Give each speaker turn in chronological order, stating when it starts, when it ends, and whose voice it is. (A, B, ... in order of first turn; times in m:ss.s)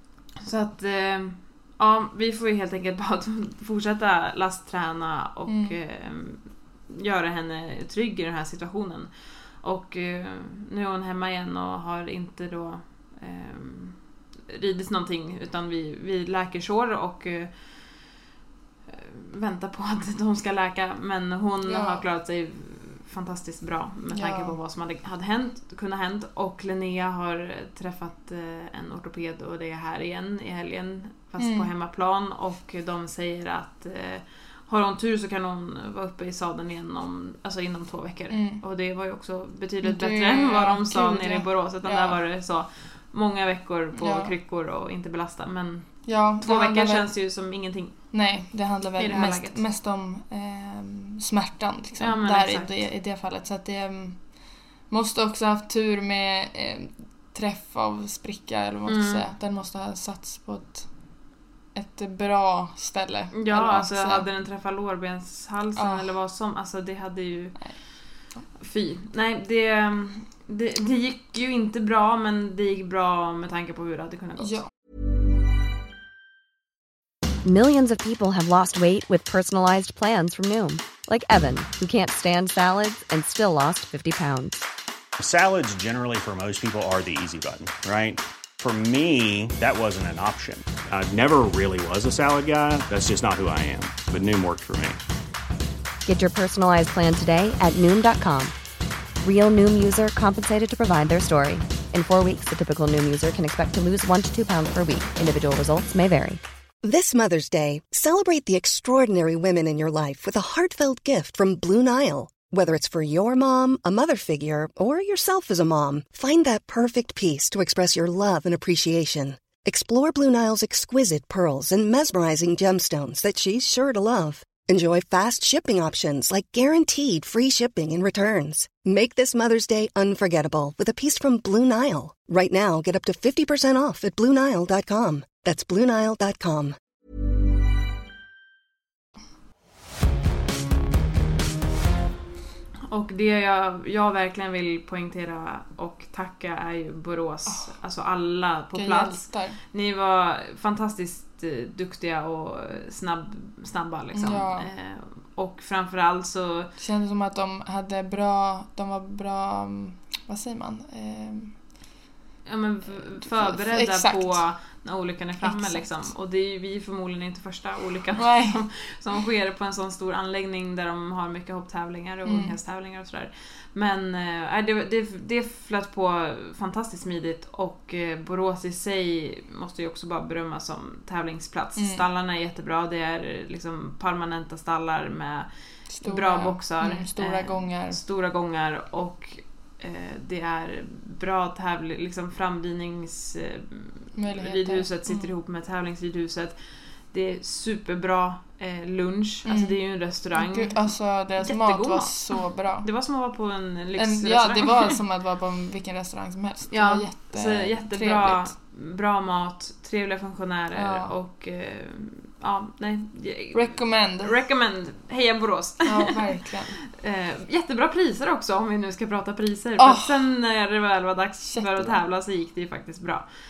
0:00.4-0:09.1 A
0:05.5-0:05.8 B
0:09.6-0:14.0 A
0:14.5-0:17.5 A
0:18.9-0:48.0 A
0:21.7-0:22.0 B
0:24.1-0:24.6 B
0:31.4-0:31.7 B
0:38.3-0:38.6 B
0:39.8-0:42.2 B
0:44.0-0:44.3 B
0:46.1-0:47.1 B
0:48.1-0:54.3 B
0:49.0-0:49.6 A
0:52.0-0:52.7 A
0:54.9-1:00.9 B
0:58.9-0:59.3 A
1:01.8-1:04.3 B
1:03.3-1:07.9 A
1:05.8-1:06.1 B
1:08.6-1:14.6 A
1:14.4-1:14.7 B
1:17.4-1:24.6 C
1:25.2-1:35.0 D
1:36.1-1:38.6 C
1:39.2-1:46.4 C
1:46.8-2:16.8 E
2:22.9-2:36.7 A
2:27.5-2:27.7 B
2:28.7-2:29.6 B
2:34.2-2:34.7 B
2:36.8-2:41.6 B
2:42.5-3:05.5 A
2:42.9-2:44.4 B
2:45.4-2:46.1 B
2:48.2-2:48.6 B
2:52.3-2:52.6 B
3:01.8-3:02.0 B
3:05.9-3:08.0 B
3:06.0-3:16.6 A
3:14.2-3:15.3 B
3:17.1-3:25.0 A
3:19.4-3:19.8 B
3:20.3-3:22.9 B
3:24.0-3:28.5 B
3:26.7-3:36.4 A
3:30.8-3:31.1 B
3:33.5-3:34.3 B
3:35.8-3:36.8 B
3:36.9-3:43.3 A
3:39.8-3:40.2 B
3:41.5-3:42.0 B